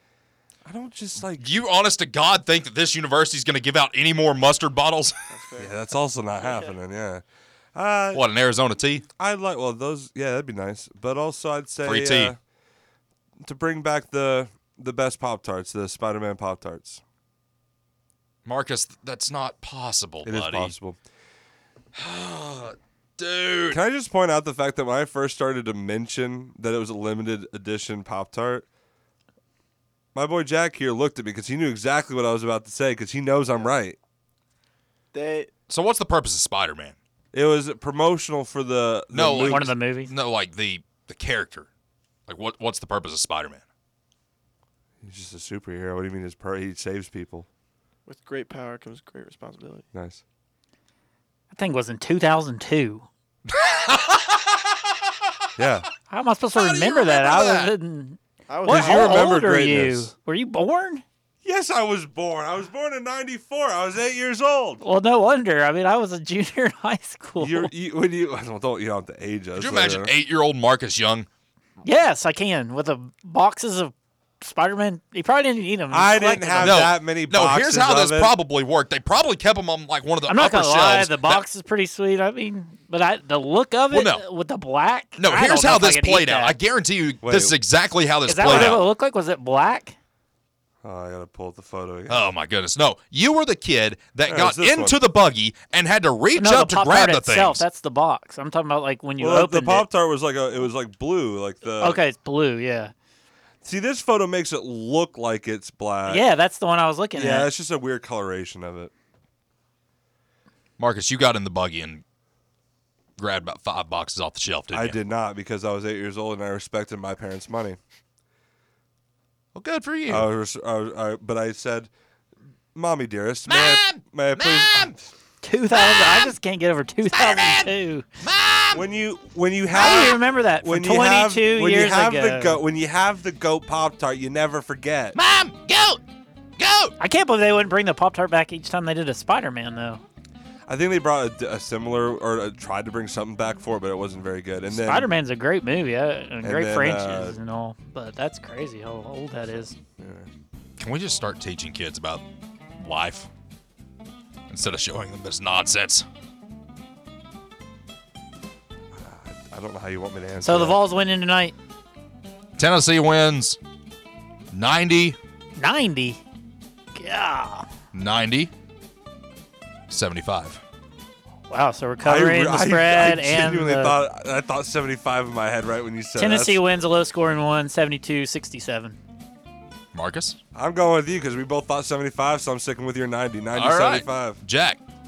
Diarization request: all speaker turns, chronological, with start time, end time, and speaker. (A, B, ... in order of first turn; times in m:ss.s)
0:00.6-0:01.5 A
0:01.4-0:05.2 B
0:05.3-0:05.8 C
0:05.6-0:07.2 A
0:06.4-0:06.7 C
0:07.8-0:08.2 A
0:08.1-0:09.0 B
0:09.2-0:12.4 A
0:11.8-0:12.3 B
0:13.4-0:17.0 A
0:18.4-0:20.8 B
0:20.2-0:21.0 A
0:22.0-0:23.8 B
0:23.7-0:28.7 A
0:30.2-0:34.0 A
0:35.1-0:35.5 C
0:35.7-0:37.0 B
0:37.3-0:39.7 A
0:39.1-0:41.7 B
0:39.3-0:40.1 D
0:42.3-0:43.6 B
0:45.0-0:47.5 A
0:48.1-0:49.9 C
0:49.9-0:50.2 A
0:51.5-0:53.1 D
0:53.5-0:54.9 B
0:55.6-0:55.9 A
0:56.1-1:01.0 D
0:56.6-0:57.7 B
0:58.5-0:59.3 C
0:58.7-1:00.1 A
1:01.4-1:04.8 A
1:04.8-1:07.7 D
1:07.4-1:10.1 A
1:09.6-1:11.3 B
1:11.8-1:16.8 D
1:15.9-1:18.4 A
1:16.6-1:21.4 B
1:20.3-1:26.6 D
1:23.9-1:24.2 B
1:25.2-1:28.8 B
1:27.2-1:27.6 A
1:28.3-1:30.0 D
1:28.4-1:28.8 A
1:30.8-1:32.3 A
1:32.1-1:37.6 B
1:34.3-1:35.0 A
1:36.4-1:39.9 D
1:39.2-1:42.0 A
1:41.8-1:42.9 D
1:43.6-1:46.3 A
1:46.1-1:47.5 D
1:47.2-1:48.9 A
1:50.8-1:52.0 B
1:53.2-1:55.0 B
1:54.7-1:57.8 A
1:59.6-2:00.3 B
2:00.1-2:01.9 A
2:02.7-2:05.1 A
2:03.5-2:04.9 B
2:05.4-2:08.0 D
2:05.7-2:06.3 B
2:07.1-2:08.8 B
2:08.7-2:15.2 A
2:09.7-2:12.6 D
2:15.2-2:16.0 B
2:16.6-2:16.9 B
2:17.0-2:20.0 D
2:20.7-2:25.1 A
2:24.7-2:29.8 D
2:26.4-2:27.4 A
2:30.0-2:30.3 A
2:30.8-2:32.2 B
2:32.8-2:33.3 B
2:34.5-2:36.1 B
2:38.9-2:40.8 A
2:40.4-2:41.6 D
2:42.6-2:43.6 B
2:44.5-2:45.2 B
2:45.6-2:46.2 D
2:47.0-2:47.7 D
2:47.9-2:48.5 B
2:49.9-2:50.6 B
2:51.5-2:54.0 D
2:52.0-2:56.6 A
2:56.2-2:59.0 D
2:59.9-3:00.4 B
3:00.6-3:04.4 A
3:03.5-3:04.8 B